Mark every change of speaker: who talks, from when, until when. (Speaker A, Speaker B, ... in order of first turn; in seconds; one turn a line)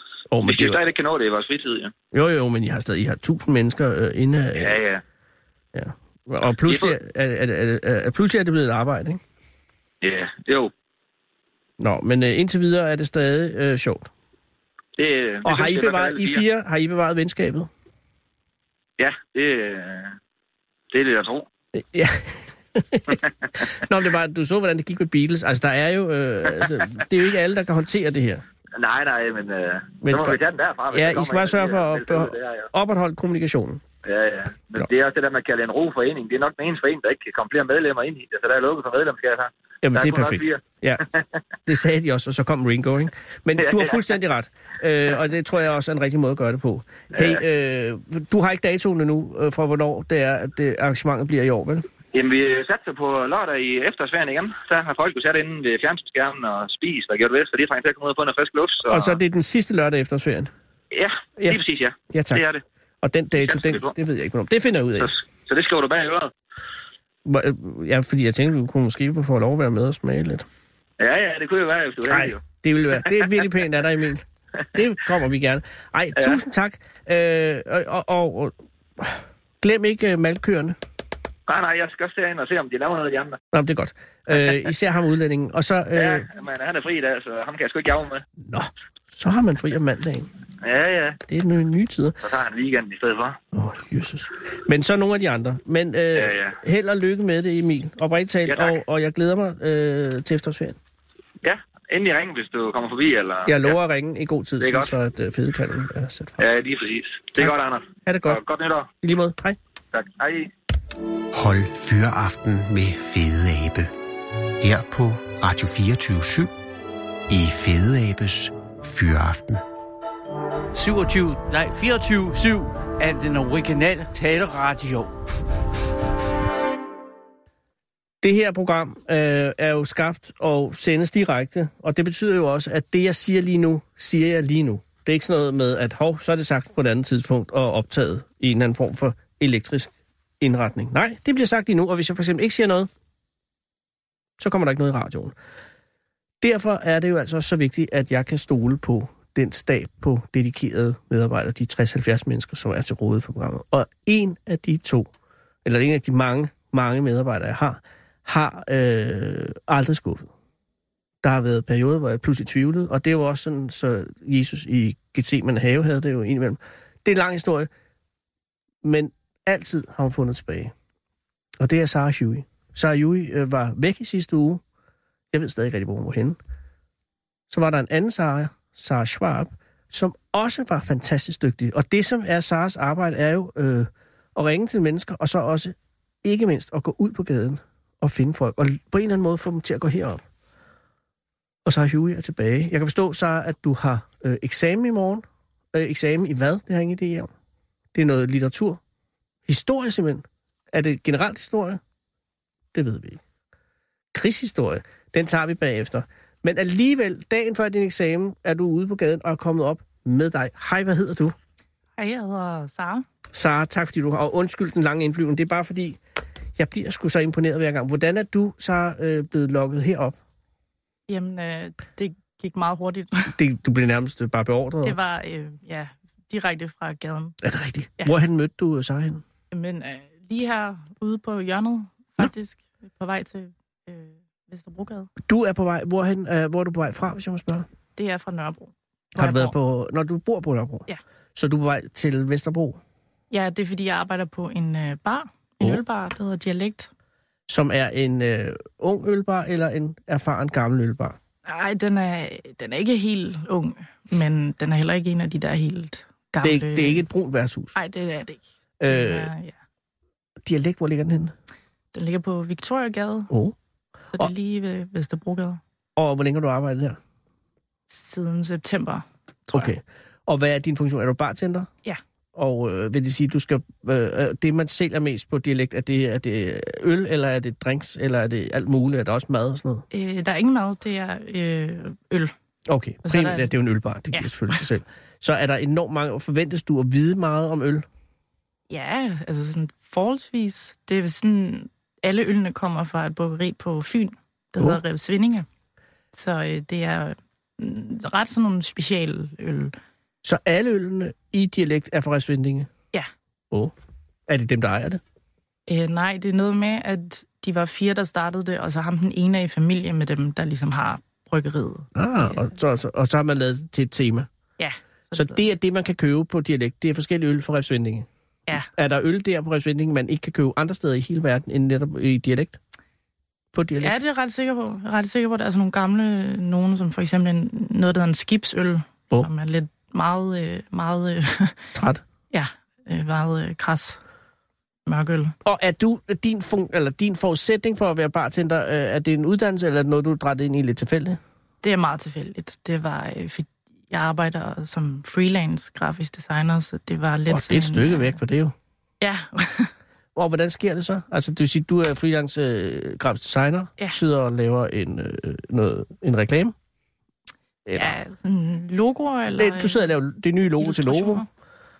Speaker A: 0.3-0.8
Speaker B: 0.4-1.9
Speaker A: 2.1-4.8
Speaker B: 4.5-5.0
Speaker A: 5.7-9.2
Speaker B: 6.6-6.9
Speaker B: 10.0-10.7
Speaker A: 11.8-14.1
Speaker B: 15.0-16.4
Speaker A: 15.4-17.7
Speaker B: 19.0-20.2
Speaker B: 20.9-21.5
Speaker A: 21.7-28.4
Speaker B: 23.1-23.5
Speaker B: 26.6-26.9
Speaker B: 28.8-32.7
Speaker A: 30.0-30.4
Speaker A: 30.9-33.8
Speaker B: 34.0-41.2
Speaker A: 39.8-41.0
Speaker A: 41.6-51.8
Speaker B: 43.6-44.1
Speaker B: 47.1-47.4
Speaker B: 52.1-59.2
Speaker A: 58.9-60.5
Speaker B: 60.9-62.6
Speaker A: 62.1-62.4
Speaker A: 63.0-65.1
Speaker B: 63.4-63.9
Speaker B: 65.0-66.3
Speaker A: 67.2-70.4
Speaker B: 71.0-72.4
Speaker A: 72.1-80.8
Speaker B: 73.0-73.3
Speaker B: 81.5-83.4
Speaker A: 83.5-86.3
Speaker B: 85.9-88.2
Speaker A: 88.4-90.3
Speaker B: 90.6-91.2
Speaker A: 91.3-92.2
Speaker B: 92.2-93.4
Speaker A: 93.5-100.8
Speaker B: 96.1-96.6
Speaker B: 98.5-98.8
Speaker B: 101.4-103.8
Speaker A: 103.5-106.4
Speaker B: 104.6-104.9
Speaker B: 106.4-108.9
Speaker A: 108.0-108.4
Speaker A: 109.0-109.6
Speaker B: 109.9-110.5
Speaker C: 111.3-113.9
Speaker C: 114.6-116.5
Speaker C: 117.3-119.6
Speaker D: 120.7-125.1
Speaker A: 128.2-142.9
Speaker A: 144.4-145.3
Speaker A: 146.4-155.1
Speaker A: 155.6-160.3
Speaker A: 161.2-167.7
Speaker A: 168.8-170.7
Speaker A: 171.6-174.6
Speaker A: 175.3-176.4
Speaker A: 177.5-190.2
Speaker A: 191.6-197.3
Speaker A: 197.9-198.8
Speaker A: 199.4-201.8
Speaker A: 202.7-203.2
Speaker A: 204.1-211.3
Speaker E: 212.0-213.1
Speaker A: 213.3-216.0
Speaker A: 216.6-220.2
Speaker E: 221.1-223.3
Speaker A: 223.3-225.0
Speaker E: 224.8-227.3
Speaker A: 227.4-229.2
Speaker E: 229.5-235.1
Speaker A: 235.2-237.7
Speaker E: 237.9-239.5
Speaker A: 239.2-242.8
Speaker E: 243.3-246.9
Speaker A: 247.5-251.2
Speaker E: 251.4-257.0
Speaker A: 256.4-257.7
Speaker E: 257.7-259.6
Speaker A: 258.8-259.3
Speaker A: 260.4-261.3
Speaker E: 261.9-263.3
Speaker E: 264.1-265.6
Speaker A: 265.9-267.0
Speaker E: 267.9-269.7
Speaker A: 269.5-271.7
Speaker A: 272.3-279.8
Speaker E: 279.9-282.3
Speaker A: 282.7-287.9
Speaker E: 283.0-283.5
Speaker E: 284.1-284.6
Speaker E: 288.7-295.4
Speaker E: 296.1-299.7
Speaker A: 300.2-302.7
Speaker A: 304.3-305.0
Speaker E: 305.7-312.4
Speaker A: 311.9-314.3
Speaker E: 314.6-315.4
Speaker A: 315.1-318.1
Speaker A: 318.7-322.6
Speaker A: 323.5-323.9
Speaker E: 323.8-331.6
Speaker A: 331.7-332.0
Speaker E: 332.3-334.0
Speaker E: 334.9-335.3
Speaker A: 335.4-341.2
Speaker E: 341.6-348.2
Speaker A: 347.3-348.5
Speaker E: 349.0-349.7
Speaker A: 350.1-356.5
Speaker A: 357.6-357.9
Speaker E: 357.7-359.9
Speaker A: 359.3-361.2
Speaker E: 360.6-361.2